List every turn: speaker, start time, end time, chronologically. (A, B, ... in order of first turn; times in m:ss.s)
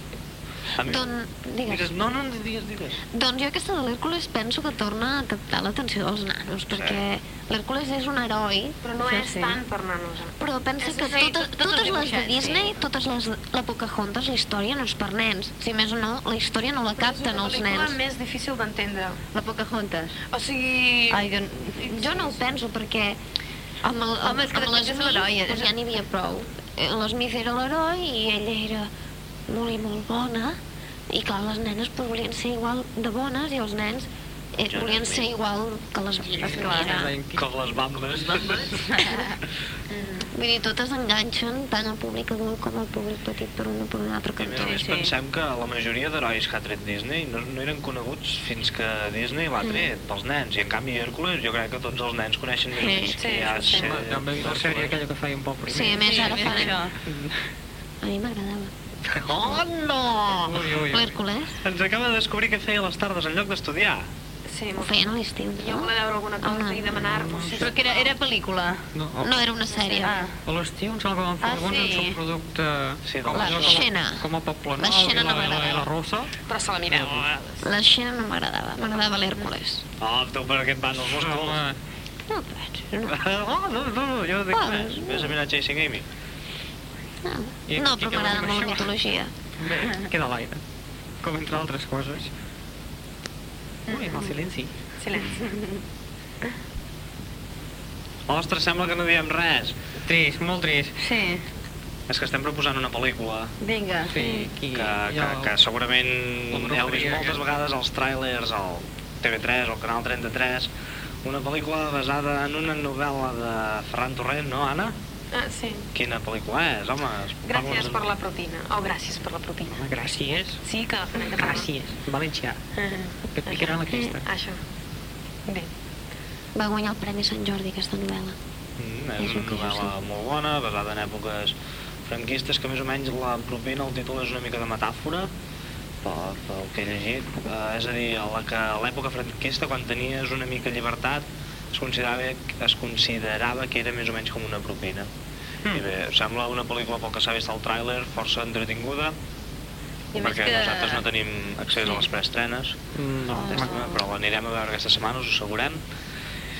0:00.8-0:01.0 A
0:00.8-0:01.9 B
0:01.6-0:03.0 A
0:03.1-0:08.8 B
0:06.7-0:07.0 A
0:08.8-0:11.3 C
0:09.0-0:09.6 D
0:10.4-0:18.0 B
0:11.1-0:12.7 D
0:17.0-0:19.2 C
0:19.3-0:20.2 D
0:20.3-0:21.2 C
0:21.1-0:22.1 D
0:21.8-0:23.2 B
0:23.8-0:28.9 B
0:24.2-0:25.7 D
0:29.5-0:30.6 B
0:31.1-0:37.1 B
0:34.6-0:35.3 A
0:36.4-0:37.6 E
0:36.4-0:37.1 D
0:37.3-0:38.9 A
0:38.1-0:39.4 D
0:39.9-0:40.3 C
0:40.3-0:44.8 B
0:44.4-0:55.0 A
0:44.6-0:45.1 D
0:49.6-0:49.9 B
0:52.7-0:53.6 B
0:53.2-0:53.9 C
0:53.7-0:57.4 E
0:55.7-0:56.8 B
0:56.0-0:56.9 D
0:58.0-0:58.7 B
0:59.1-1:00.6 A
0:59.3-0:59.6 B
1:00.4-1:01.2 E
1:00.9-1:01.6 B
1:01.6-1:04.0 A
1:04.5-1:05.0 C
1:04.8-1:05.9 B
1:05.6-1:08.1 C
1:06.4-1:07.0 B
1:07.0-1:07.7 E
1:07.6-1:08.8 D
1:08.9-1:09.4 E
1:09.2-1:10.2 B
1:09.8-1:10.2 C
1:10.0-1:10.3 D
1:10.4-1:16.3 E
1:11.4-1:12.2 D
1:13.0-1:13.8 A
1:13.3-1:14.3 B
1:14.8-1:15.9 B
1:16.5-1:17.7 C
1:16.9-1:17.3 E
1:17.6-1:19.8 B
1:20.0-1:21.6 A
1:21.0-1:21.8 E
1:22.3-1:23.2 B
1:23.1-1:26.0 A
1:24.5-1:25.4 B
1:27.2-1:29.3 B
1:27.7-1:28.9 E
1:29.6-1:30.6 E
1:31.2-1:32.3 E
1:33.9-1:34.3 C
1:33.9-1:34.7 E
1:35.0-1:35.5 C
1:35.4-1:35.8 D
1:38.3-1:39.8 A
1:40.0-1:41.0 E
1:41.0-1:41.4 D
1:42.1-1:43.5 A
1:43.6-1:44.2 D
1:44.1-1:45.5 E
1:44.2-1:44.5 B
1:44.7-1:50.7 A
1:46.5-1:47.5 E
1:51.2-1:54.9 A
1:55.3-1:55.9 C
1:55.9-1:58.1 A
1:57.4-1:59.8 C
1:59.7-2:00.6 E
2:00.6-2:01.7 C
2:01.2-2:02.6 E
2:02.7-2:04.6 C
2:03.3-2:04.2 E
2:06.5-2:08.4 B
2:08.8-2:11.5 A
2:09.2-2:09.9 B
2:12.0-2:15.3 A
2:16.0-2:25.1 A
2:25.7-2:29.2 A
2:30.1-2:31.0 D
2:30.2-2:32.8 A
2:32.9-2:33.8 E
2:33.3-2:35.8 A
2:33.3-2:33.9 D